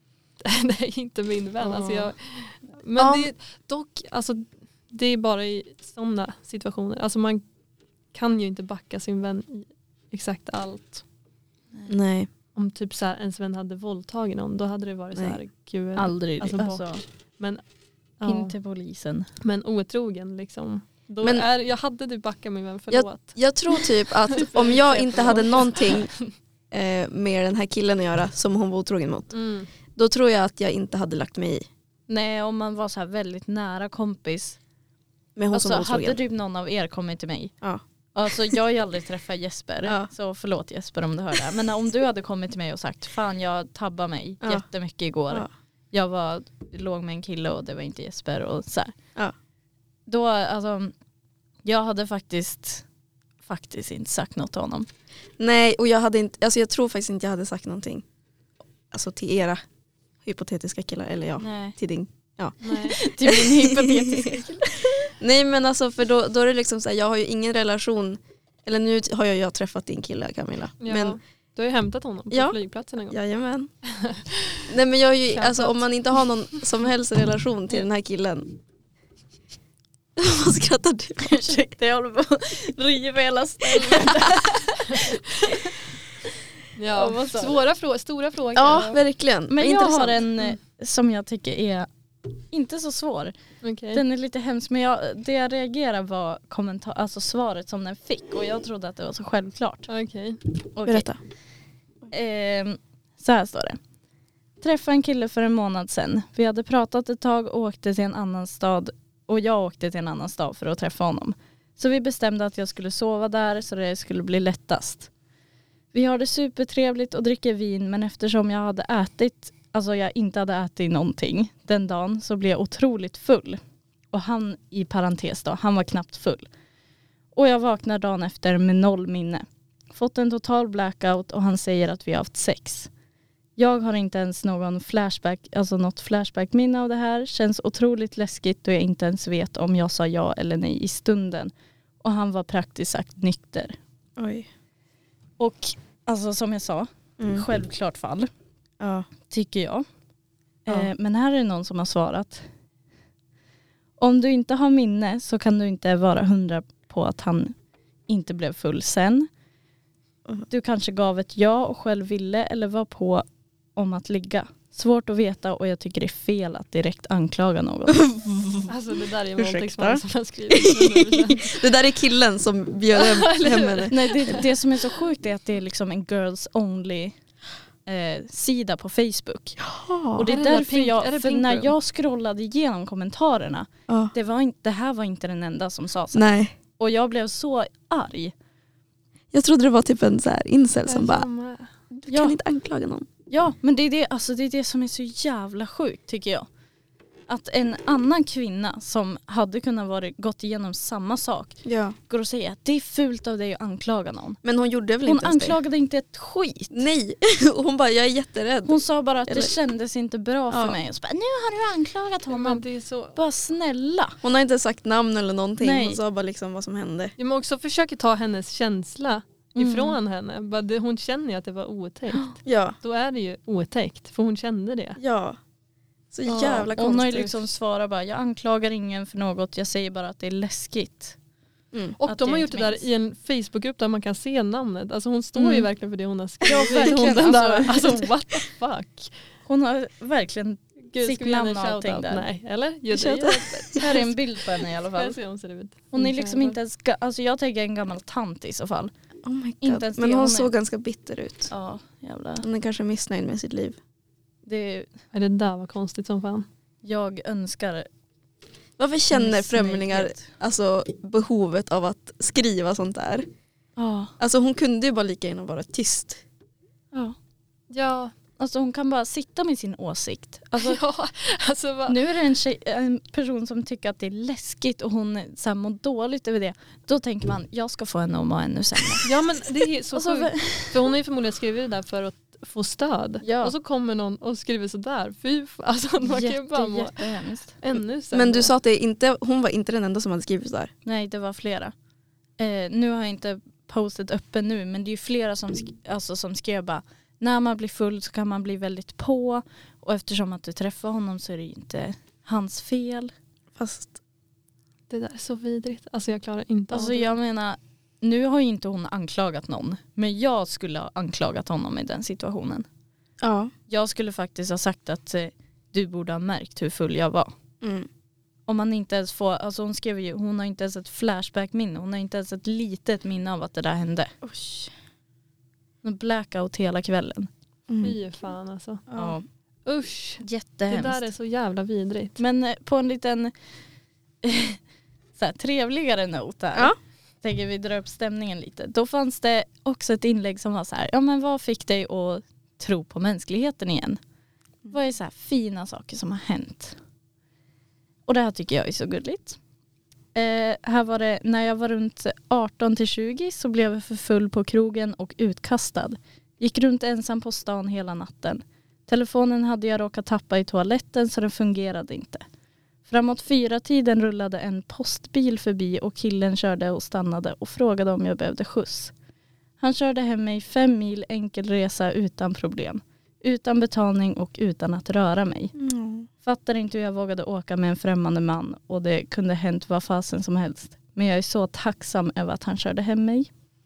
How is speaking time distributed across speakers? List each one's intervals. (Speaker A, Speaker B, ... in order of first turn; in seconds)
Speaker A: 0.4-7.4, 8.1-11.0, 12.5-17.6, 18.2-18.5, 19.4-26.3, 29.3-29.7, 62.6-63.0, 70.8-73.2, 73.9-74.7, 75.3-76.2, 84.8-85.2, 86.7-89.0, 93.6-94.0, 99.9-100.4, 168.7-171.7, 172.9-174.5, 180.3-181.7, 190.8-191.7, 212.3-213.2, 217.2-225.0, 226.2-226.7, 232.0-239.1, 240.9-244.1, 244.9-246.6, 255.1-256.4, 267.7-268.1, 270.6-272.0, 279.0-287.1, 287.6-288.5, 304.9-307.1, 327.8-328.8, 329.6-332.2
Speaker B: 3.0-3.3, 11.9-12.3, 22.9-26.1, 26.7-29.3, 29.9-31.7, 35.4-36.2, 39.8-40.1, 55.4-58.0, 58.9-59.6, 60.2-71.2, 72.3-72.5, 73.1-73.7, 74.7-78.6, 80.2-81.5, 83.8-84.5, 88.5-90.3, 100.8-101.2, 144.2-144.5, 147.2-147.4, 148.8-149.1, 168.0-168.7, 169.4-174.4, 179.6-180.3, 183.9-184.1, 186.1-186.5, 189.3-191.2, 191.9-193.1, 201.6-202.0, 204.4-205.6, 206.7-209.5, 210.5-210.8, 214.2-217.1, 222.4-222.8, 225.0-225.4, 226.1-227.4, 231.7-232.0, 236.6-236.9, 242.9-244.0, 249.2-251.5, 252.4-253.8, 258.8-263.2, 264.2-266.2, 288.1-290.7, 303.6-304.0, 313.2-313.5, 317.6-317.9, 324.2-324.7, 327.7-327.9, 328.9-329.2, 375.5-376.1
Speaker C: 16.0-17.0, 18.2-19.3, 24.5-25.7, 32.1-34.6, 35.5-37.5, 38.1-48.9, 50.1-50.9, 51.6-52.8, 53.4-54.9, 61.4-61.8, 62.8-65.1, 81.2-85.7, 86.9-87.6, 89.5-91.9, 92.5-93.3, 93.9-99.9, 100.7-101.1, 102.1-103.8, 104.6-115.1, 115.9-123.6, 124.1-126.5, 127.3-132.9, 133.6-143.8, 145.4-148.3, 149.3-149.8, 150.7-152.4, 154.0-157.5, 158.1-159.3, 160.5-163.2, 163.8-168.1, 173.9-177.2, 177.8-179.6, 180.2-186.2, 186.8-188.3, 192.1-192.4, 193.3-196.5, 197.3-204.4, 205.0-206.8, 208.7-212.6, 213.2-214.2, 215.6-216.0, 219.6-220.0, 226.4-231.2, 232.1-232.8, 235.3-235.7, 236.4-238.1, 239.4-242.2, 243.8-245.2, 245.9-248.9, 249.6-250.5, 251.5-252.5, 254.4-254.9, 256.8-257.9, 259.1-260.2, 263.8-264.1, 266.9-267.2, 268.4-270.8, 271.9-279.1, 279.9-280.9, 283.2-283.5, 286.0-287.5, 290.8-291.7, 292.4-303.1, 306.7-312.6, 313.7-317.3, 318.5-324.1, 325.8-327.3, 328.9-329.2, 330.2-331.1, 332.2-333.3, 334.2-334.6, 335.1-344.0, 344.7-346.8, 348.1-349.4, 350.1-362.2, 362.9-368.9, 369.6-375.5, 376.2-383.3